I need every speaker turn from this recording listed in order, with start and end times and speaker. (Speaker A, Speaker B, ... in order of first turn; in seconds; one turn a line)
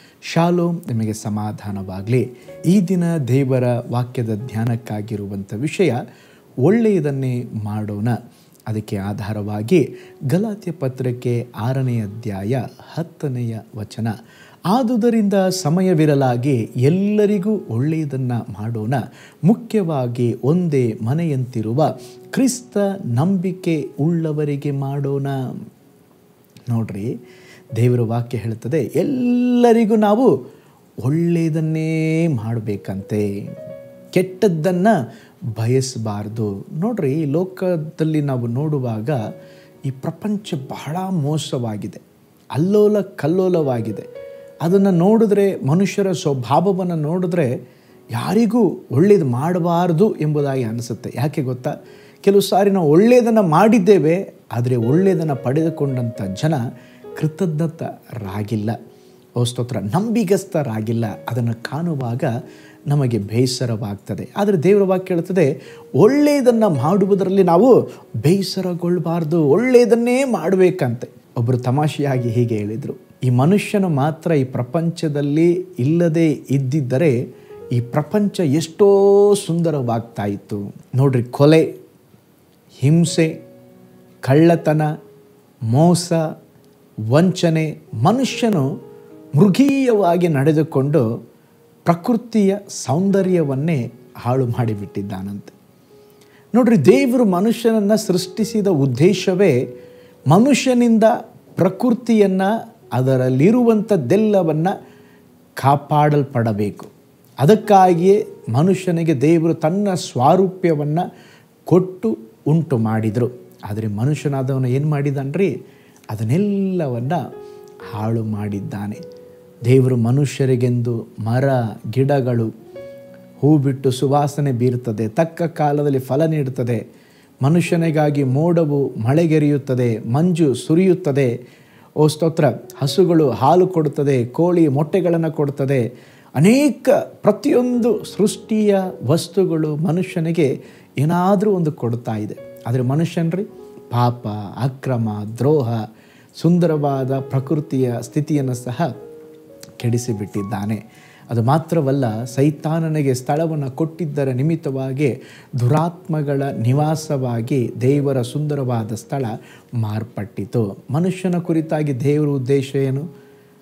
Speaker A: 0.3-6.0
Speaker A: 6.6-14.1
Speaker A: 14.7-25.4
Speaker A: 26.7-27.1
Speaker A: 27.8-30.3
Speaker A: 31.0-33.3
Speaker A: 34.1-35.0
Speaker A: 35.5-39.2
Speaker A: 39.9-42.0
Speaker A: 42.5-44.1
Speaker A: 44.6-47.5
Speaker A: 48.1-56.6
Speaker A: 57.1-58.8
Speaker A: 59.4-62.3
Speaker A: 62.9-77.2
Speaker A: 77.7-81.7
Speaker A: 82.8-83.3
Speaker A: 84.2-84.9
Speaker A: 85.7-86.2
Speaker A: 87.1-88.7
Speaker A: 89.3-91.0
Speaker A: 91.8-95.5
Speaker A: 96.5-99.6
Speaker A: 100.3-104.7
Speaker A: 105.6-106.9
Speaker A: 107.4-111.0
Speaker A: 111.7-115.5
Speaker A: 116.1-117.2
Speaker A: 117.9-119.0
Speaker A: 119.7-122.5
Speaker A: 123.4-126.8
Speaker A: 127.4-131.3
Speaker A: 132.0-145.8
Speaker A: 146.4-148.9
Speaker A: 149.8-163.1